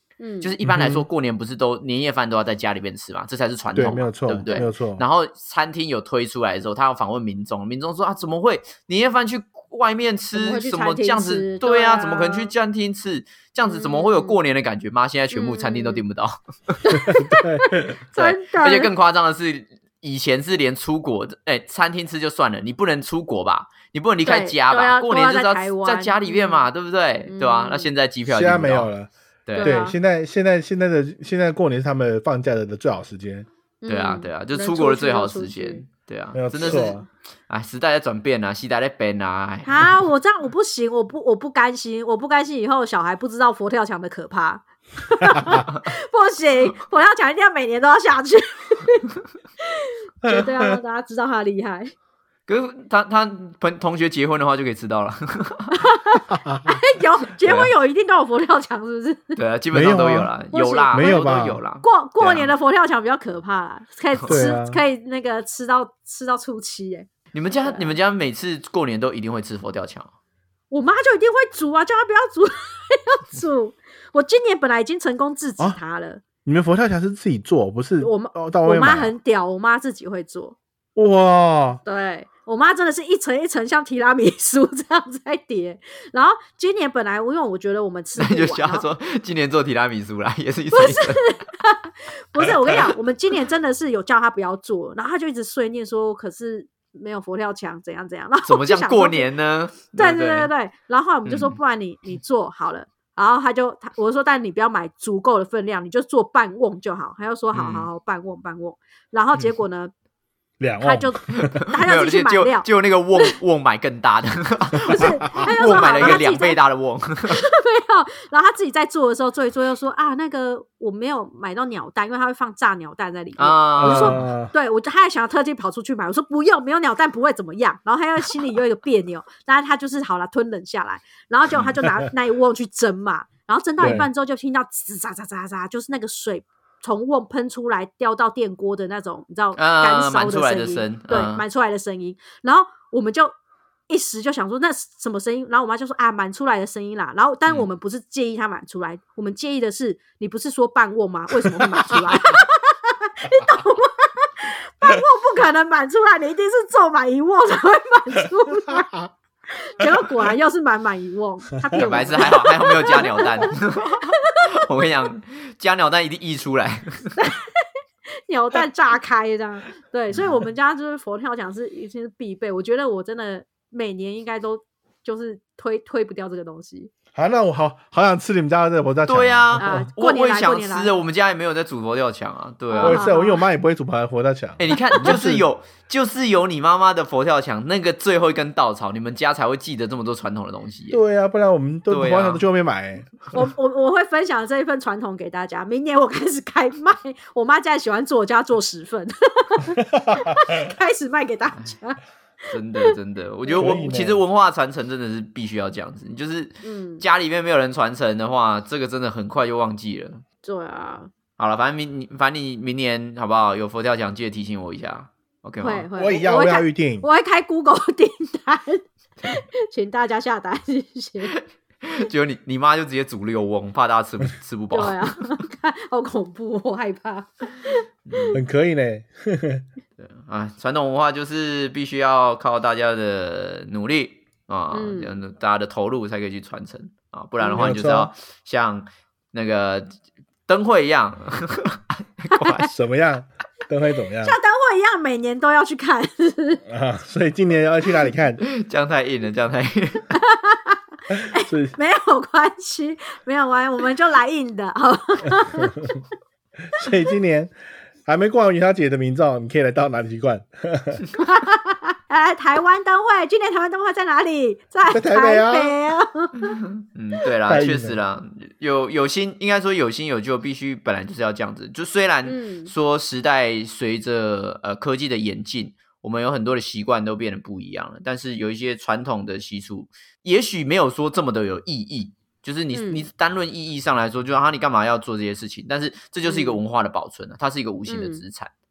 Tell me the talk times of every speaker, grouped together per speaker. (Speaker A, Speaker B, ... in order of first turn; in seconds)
Speaker A: 0.2-0.5, 10.3-12.5, 13.7-14.4, 15.3-16.0, 16.9-18.9, 24.2-26.7, 27.3-27.9, 29.6-29.9, 33.8-35.8, 36.7-37.0, 39.6-49.0, 49.7-51.9, 55.7-59.4, 60.5-67.1, 67.6-67.9, 70.7-76.2, 78.0-80.6, 81.8-88.9, 90.7-99.3, 100.0-109.9, 110.8-113.3, 114.8-116.6, 117.3-143.3, 143.9-159.0, 159.6-163.5, 164.1-164.4, 167.2-167.7, 168.3-176.9, 179.6-180.9, 182.7-183.4, 184.8-185.1, 193.3-202.0, 206.6-207.0, 210.4-211.1, 215.6-221.3, 224.7-228.4, 234.7-235.2, 244.2-246.6, 250.1-255.9, 261.2-266.6, 272.2-272.7, 282.7-283.1, 286.3-286.6, 287.9-288.2
Speaker B: 0.4-17.0, 18.1-28.9, 29.5-29.8, 33.9-39.9, 52.5-55.8, 57.5-57.7, 59.4-62.5, 64.2-64.5, 67.3-70.1, 88.2-91.3, 98.5-100.5, 101.3-101.6, 107.5-107.9, 111.3-117.4, 123.4-124.3, 139.6-141.4, 161.8-167.2, 179.1-183.1, 184.6-191.0, 191.9-192.4, 202.5-210.2, 211.4-215.9, 221.3-225.2, 228.1-228.4, 230.0-239.9, 240.5-242.7, 248.4-250.1, 266.4-288.5
Speaker C: 0.6-1.1, 3.7-5.0, 17.1-17.8, 28.2-33.5, 36.3-37.0, 56.3-56.6, 59.7-60.3, 60.9-61.6, 64.3-64.8, 76.5-79.1, 81.0-81.8, 110.6-111.6, 123.8-124.5, 133.8-134.1, 151.9-152.1, 177.1-179.9, 182.8-185.4, 190.9-193.1, 200.0-200.3, 203.6-204.2, 215.9-217.1, 228.3-229.6, 237.4-238.1, 242.6-244.3, 246.7-248.4, 251.3-251.8, 256.8-257.5, 258.1-261.0, 264.9-265.8, 267.4-267.9